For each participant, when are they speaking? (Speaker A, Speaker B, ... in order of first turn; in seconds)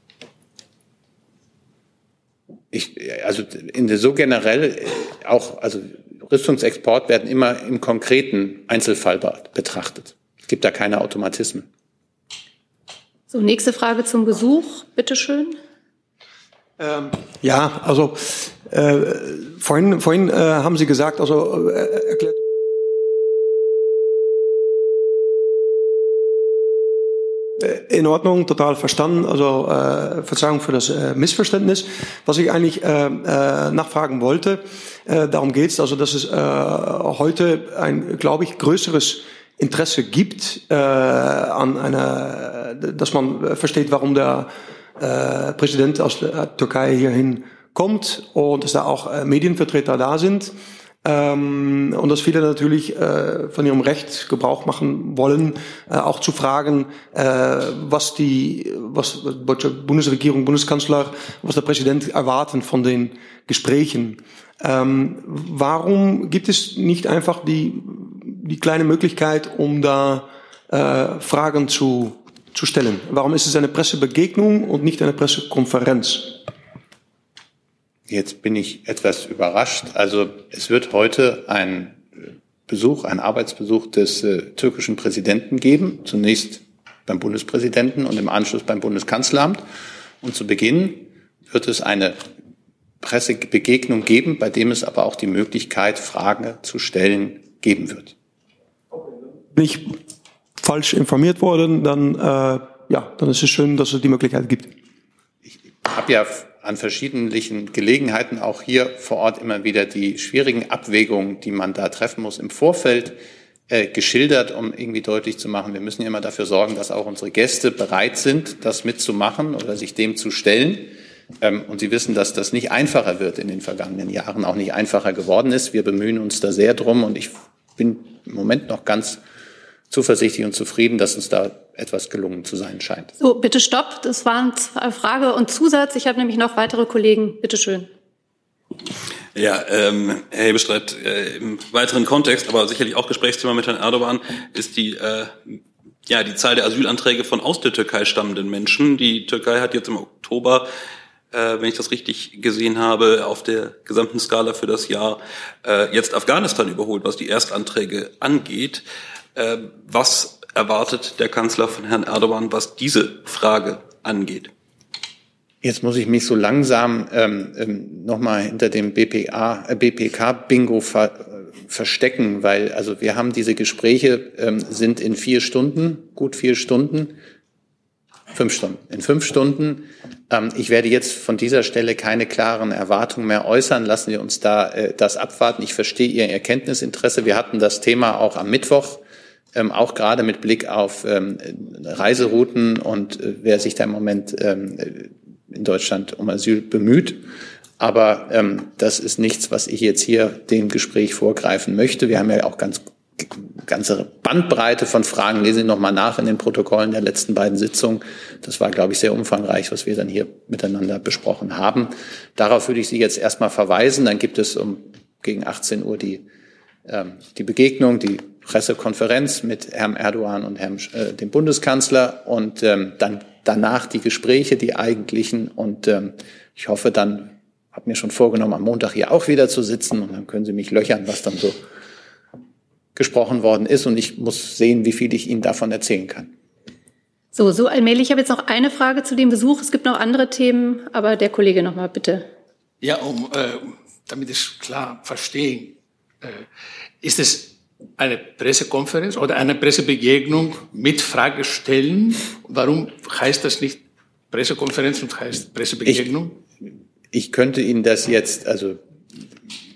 Speaker A: 2.7-11.7, 78.1-89.6, 90.2-92.2, 93.0-98.1, 105.8-113.2, 113.7-129.2, 129.9-133.1, 165.6-177.2, 178.3-189.0, 189.5-197.2, 197.8-216.2, 216.8-231.6, 232.9-236.3, 257.1-258.8
Speaker B: 13.3-15.6, 133.2-137.9, 237.3-242.3
Speaker C: 16.8-22.4, 27.6-50.5, 51.0-76.4, 99.5-100.0, 100.6-104.7
Speaker D: 139.3-150.7, 151.3-158.8, 159.3-164.5
Speaker E: 242.8-246.5, 247.0-256.4